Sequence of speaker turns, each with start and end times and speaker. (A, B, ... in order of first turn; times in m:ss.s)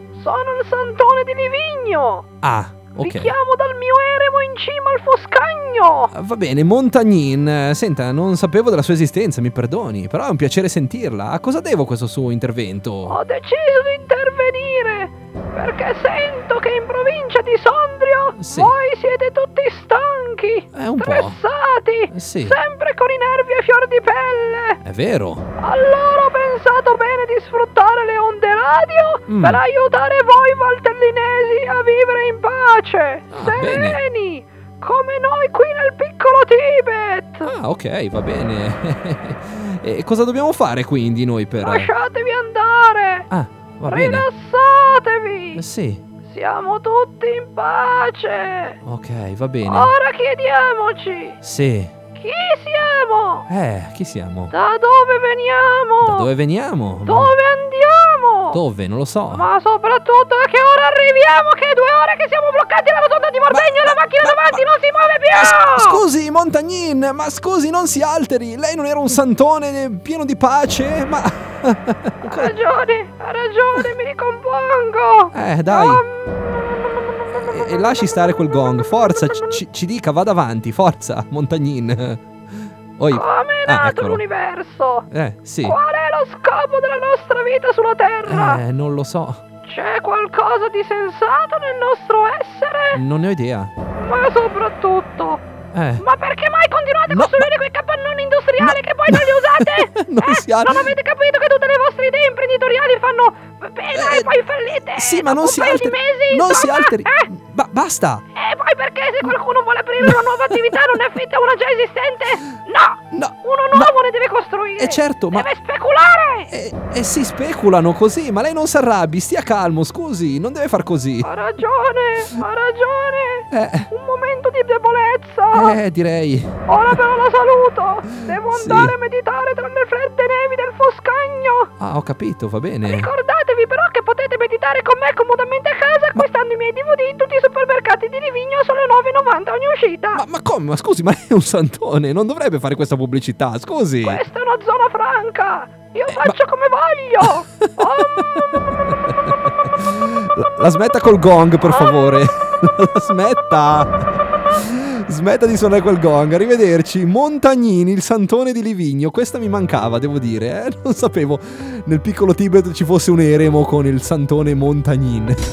0:00.1-0:02.3 A
0:02.4-0:03.4 B
0:03.0-0:06.1 A
0:06.1-0:13.2 B
0:13.1-0:24.8 A
0:18.4-0:18.8 B
0:20.7-0:21.4 B
0:22.1-0:22.6 B
0:24.8-0:25.4 B
0:25.6-0:37.5 A
0:29.3-0:29.6 B
0:33.3-0:34.0 B
0:37.4-0:41.9 B
0:41.6-0:43.3 A
0:43.3-0:44.3 B
0:43.9-0:45.6 A
0:45.6-0:46.0 B
0:46.2-0:48.8 A
0:48.8-0:49.9 B
0:49.6-0:51.4 A
0:51.4-0:51.9 B
0:52.1-0:53.5 A
0:53.5-0:54.5 B
0:54.5-0:56.3 A
0:56.0-0:57.4 B
0:57.0-0:58.6 A
0:58.5-0:59.5 B
0:59.3-1:06.0 A
1:03.5-1:04.6 B
1:05.3-1:12.5 B
1:12.2-1:18.1 A
1:15.3-1:16.0 B
1:17.3-1:24.2 B
1:19.1-1:19.6 A
1:23.1-1:25.1 A
1:25.1-1:25.8 B
1:25.6-1:28.6 A
1:28.2-1:29.4 B
1:29.6-1:33.0 A
1:32.9-1:33.7 B
1:34.0-1:35.4 A
1:35.7-1:36.0 B
1:36.0-1:47.3 A
1:37.1-1:37.5 B
1:38.6-1:40.9 B
1:43.9-1:44.4 B
1:44.9-1:48.2 B
1:48.4-1:56.5 A
1:50.0-1:51.0 B
1:53.1-1:53.9 B
1:54.8-1:55.5 B
1:56.5-2:01.3 B
2:01.2-2:05.8 A
2:03.5-2:03.9 B
2:05.5-2:07.0 B
2:06.7-2:11.7 A
2:08.3-2:09.0 B
2:11.8-2:13.1 B
2:12.8-2:20.2 A
2:20.1-2:24.2 B
2:24.0-2:28.6 A
2:26.1-2:26.4 B
2:27.2-2:45.4 B
2:31.6-2:32.0 A